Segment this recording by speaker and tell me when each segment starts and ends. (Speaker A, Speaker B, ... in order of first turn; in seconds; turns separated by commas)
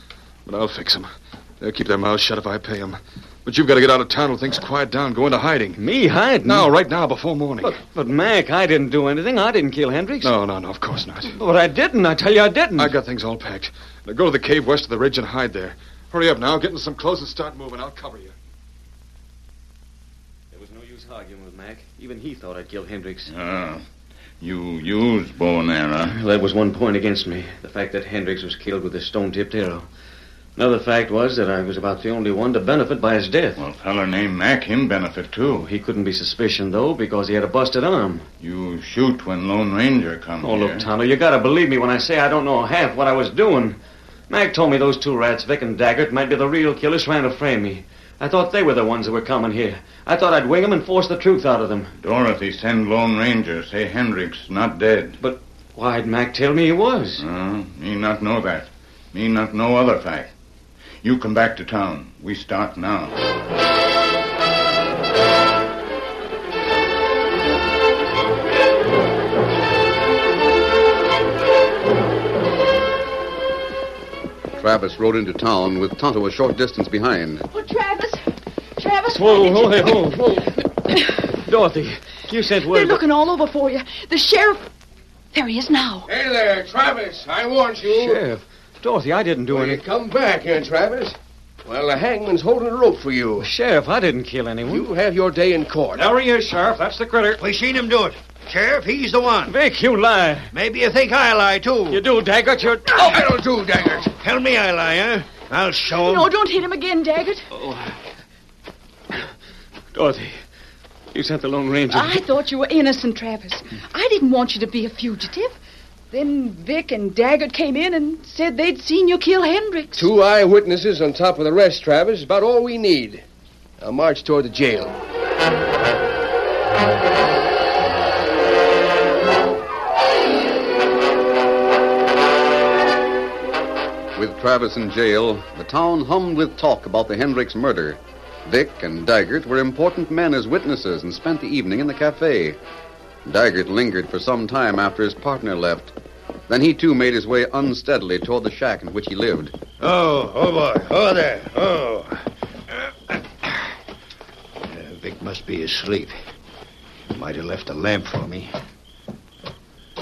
Speaker A: 0.5-5.8, Speaker B: 5.8-6.7, Speaker A: 6.5-7.8, Speaker B: 7.6-10.3, Speaker A: 10.2-11.4, Speaker B: 11.3-13.0, Speaker A: 12.8-18.4, Speaker B: 20.5-23.3, Speaker C: 23.3-23.9, Speaker C: 24.4-26.2, Speaker B: 26.1-29.9, Speaker B: 30.6-33.6, Speaker C: 33.6-35.7, Speaker B: 35.6-38.3, Speaker C: 38.4-40.9, Speaker B: 40.4-43.8, Speaker B: 44.3-51.9, Speaker C: 52.0-55.2, Speaker B: 55.2-57.2, Speaker C: 57.2-60.3, Speaker C: 61.0-63.2, Speaker D: 74.6-77.5, Speaker E: 77.5-78.2, Speaker E: 78.8-81.3, Speaker B: 79.1-80.6, Speaker B: 81.4-83.0, Speaker E: 82.6-84.7, Speaker E: 85.3-86.1, Speaker F: 86.1-88.2, Speaker B: 87.8-89.8, Speaker F: 89.5-93.5, Speaker B: 93.4-94.9, Speaker F: 94.7-96.2, Speaker B: 96.0-97.4, Speaker G: 97.4-99.5, Speaker B: 99.5-100.5, Speaker G: 100.5-102.0, Speaker B: 101.9-103.2, Speaker F: 103.0-104.1, Speaker G: 104.1-106.3, Speaker E: 105.9-107.5, Speaker B: 107.5-108.0, Speaker B: 109.9-110.4, Speaker B: 111.1-112.2, Speaker E: 111.9-115.6, Speaker E: 116.1-120.1, Speaker F: 120.0-123.2, Speaker F: 123.8-125.0, Speaker D: 134.2-142.6, Speaker D: 143.2-145.9, Speaker D: 146.5-149.6, Speaker G: 149.8-153.7, Speaker G: 154.6-156.2, Speaker G: 157.1-158.5